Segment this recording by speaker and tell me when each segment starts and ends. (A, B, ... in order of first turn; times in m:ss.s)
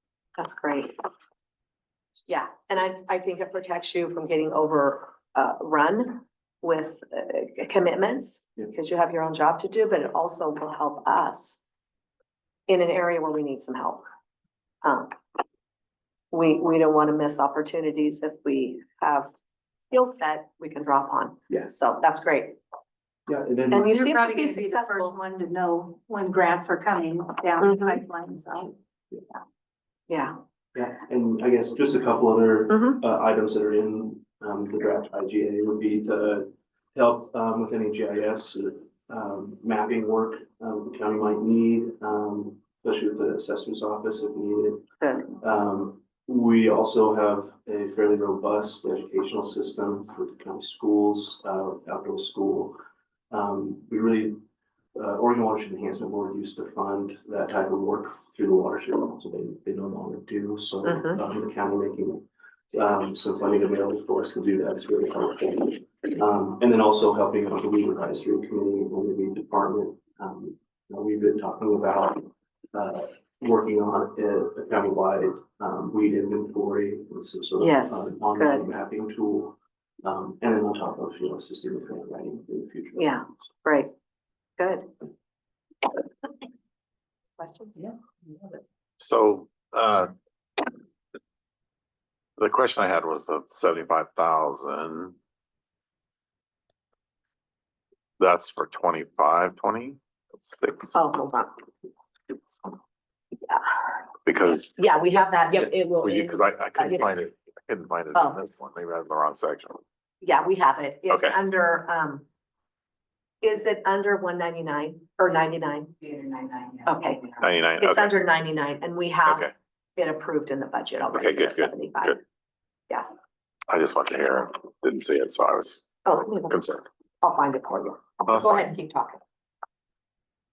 0:00.4-0:01.0 A
0:02.3-0:11.6 A
0:12.7-0:14.0 A
0:14.8-0:15.1 A
0:16.3-0:19.3 A
0:19.9-0:22.6 A
0:23.3-0:23.9 B
0:23.7-0:25.2 A
0:23.7-0:28.7 C
0:27.6-0:28.0 A
0:30.1-0:30.4 A
0:30.8-0:44.8 B
0:32.7-0:33.0 A
0:45.0-0:45.3 A
0:45.4-0:52.8 B
0:53.3-0:54.4 B
0:55.0-1:23.3 B
1:00.8-1:01.2 A
1:17.6-1:18.6 A
1:23.0-1:23.9 A
1:24.6-1:24.9 A
1:27.4-1:27.9 A
1:29.0-1:30.1 D
1:32.4-1:35.2 D
1:38.2-1:41.0 D
1:41.0-1:41.5 A
1:44.3-1:44.7 D
1:44.4-1:47.1 A
1:46.0-1:49.8 D
1:50.2-1:52.2 A
1:51.1-1:51.4 D
1:53.4-2:02.2 A
1:57.4-1:58.2 D
1:59.3-1:59.5 D
2:01.1-2:02.2 D
2:03.7-2:05.9 D
2:06.0-2:06.6 A
2:06.5-2:06.9 D
2:07.2-2:09.2 A
2:08.3-2:08.7 D